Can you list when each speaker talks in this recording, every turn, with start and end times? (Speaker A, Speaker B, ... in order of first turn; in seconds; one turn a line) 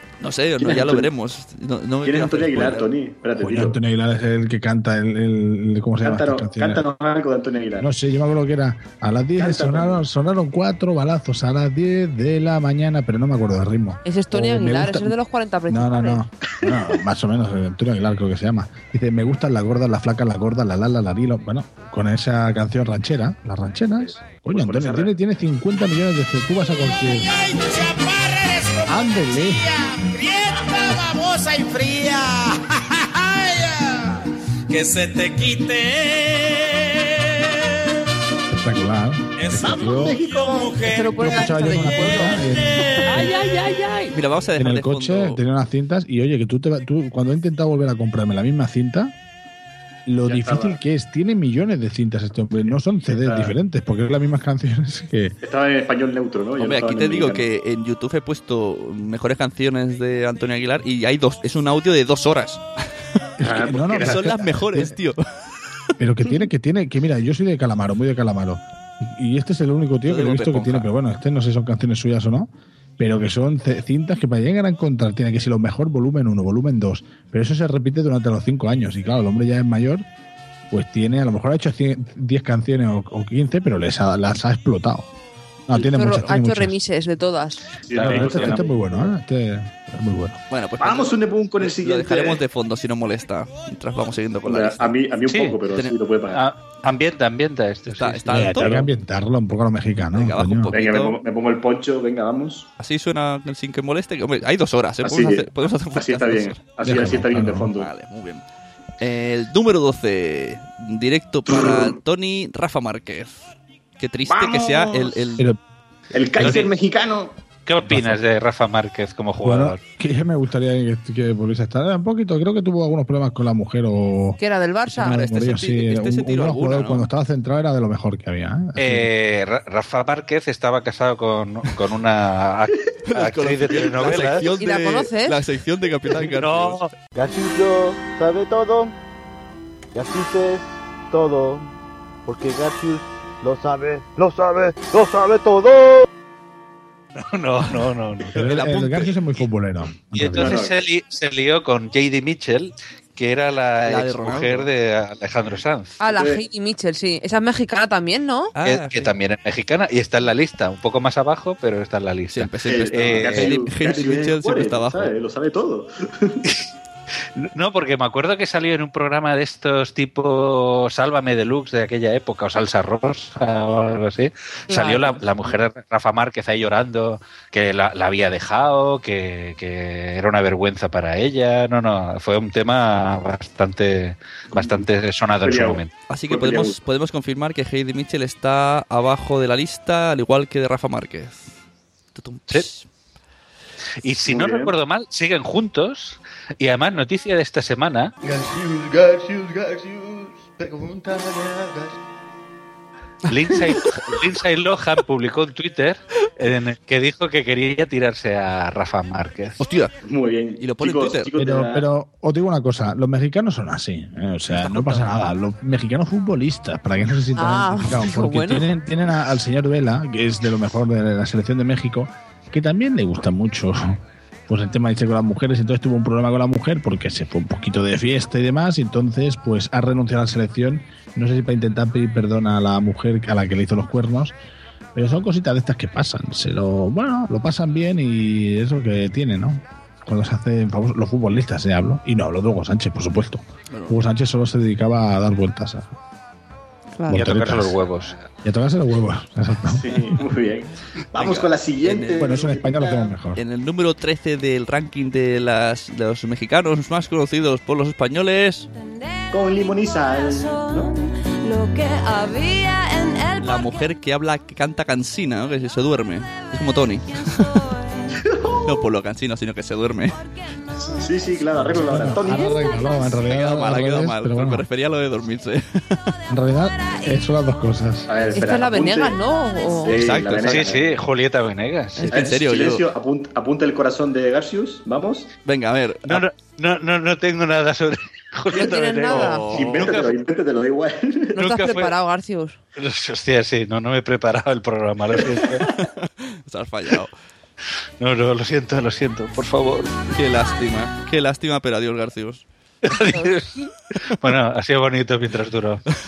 Speaker A: 0.2-2.9
Speaker B: 0.6-1.1
Speaker B: 2.0-3.8
Speaker C: 3.4-6.8
Speaker B: 6.0-7.9
Speaker C: 7.8-15.2
Speaker B: 9.4-10.1
Speaker D: 14.1-16.2
Speaker C: 15.7-27.4
Speaker B: 24.0-25.1
Speaker C: 28.9-29.9
Speaker E: 30.2-32.4
Speaker E: 34.7-36.5
Speaker C: 38.5-40.2
Speaker E: 39.5-41.0
Speaker B: 39.5-40.8
Speaker D: 40.8-42.9
Speaker C: 41.0-43.3
Speaker A: 43.1-45.4
Speaker C: 44.6-49.1
Speaker C: 50.1-55.4
Speaker B: 50.2-50.8
Speaker B: 53.1-53.6
Speaker B: 55.4-57.5
Speaker A: 56.6-62.6
Speaker B: 63.4-64.5
Speaker C: 63.4-64.9
Speaker A: 63.9-65.2
Speaker C: 66.0-80.1
Speaker A: 70.1-70.9
Speaker C: 80.7-85.1
Speaker C: 85.7-86.8
Speaker D: 85.8-87.7
Speaker B: 87.9-89.2
Speaker F: 87.9-88.6
Speaker C: 88.0-90.4
Speaker A: 90.5-95.0
Speaker B: 90.8-92.4
Speaker B: 94.5-96.4
Speaker F: 95.3-95.6
Speaker F: 96.3-98.6
Speaker A: 97.9-98.7
Speaker C: 98.3-100.8
Speaker B: 98.6-98.9
Speaker A: 100.1-101.2
Speaker B: 100.7-102.7
Speaker A: 102.8-108.4
Speaker B: 105.0-107.9
Speaker C: 106.8-107.7
Speaker A: 109.0-115.5
Speaker B: 111.5-112.0
Speaker B: 114.3-115.2
Speaker B: 116.1-117.4
Speaker F: 116.4-116.7
Speaker F: 117.7-119.8
Speaker C: 117.8-118.2
Speaker C: 119.4-129.1
Speaker D: 124.4-125.2
Speaker A: 125.0-127.1
Speaker F: 128.8-134.5
Speaker A: 133.1-136.8
Speaker D: 134.6-135.4
Speaker F: 136.2-136.9
Speaker G: 137.1-139.0
Speaker G: 139.9-141.7
Speaker G: 142.2-146.1
Speaker F: 147.2-148.3
Speaker C: 148.3-150.6
Speaker A: 148.4-149.1
Speaker F: 150.2-156.0
Speaker B: 150.4-150.8
Speaker A: 153.8-154.7
Speaker D: 156.0-158.5
Speaker B: 156.1-156.4
Speaker A: 158.6-159.1
Speaker F: 158.6-163.6
Speaker A: 162.3-165.1
Speaker B: 162.7-166.4
Speaker F: 167.4-185.9
Speaker D: 174.7-175.2
Speaker B: 184.5-184.8
Speaker B: 185.4-186.8
Speaker A: 186.1-191.5
Speaker A: 192.2-192.9
Speaker F: 194.0-198.1
Speaker B: 194.3-194.7
Speaker H: 198.2-202.0
Speaker F: 203.3-209.6
Speaker A: 209.6-209.9
Speaker B: 210.0-211.9
Speaker A: 210.6-211.3
Speaker C: 211.4-234.3
Speaker A: 214.6-215.1
Speaker D: 217.3-218.7
Speaker C: 234.9-245.9
Speaker A: 243.7-244.0
Speaker D: 247.0-247.2
Speaker C: 247.1-247.8
Speaker F: 247.1-248.1
Speaker C: 248.4-250.1
Speaker B: 249.7-253.2
Speaker A: 251.2-252.6
Speaker C: 252.2-253.4
Speaker A: 253.3-258.7
Speaker B: 259.3-260.9
Speaker A: 263.4-267.7
Speaker B: 268.3-268.6
Speaker A: 268.6-270.2
Speaker B: 270.9-272.8
Speaker C: 271.6-274.7
Speaker A: 273.2-276.1
Speaker C: 276.3-278.1
Speaker B: 278.1-279.2
Speaker D: 278.3-279.9
Speaker B: 279.8-281.0
Speaker A: 279.9-280.7
Speaker F: 280.4-282.2
Speaker A: 282.0-282.9
Speaker B: 282.1-285.3
Speaker A: 285.5-286.2
Speaker F: 286.1-290.2
Speaker D: 288.5-289.6
Speaker A: 289.2-289.9
Speaker B: 289.4-291.3
Speaker D: 291.4-292.6
Speaker F: 291.4-291.9
Speaker F: 292.8-295.7
Speaker B: 295.3-295.7
Speaker A: 295.7-297.1
Speaker F: 298.0-299.9
Speaker A: 300.1-302.4
Speaker F: 302.8-305.8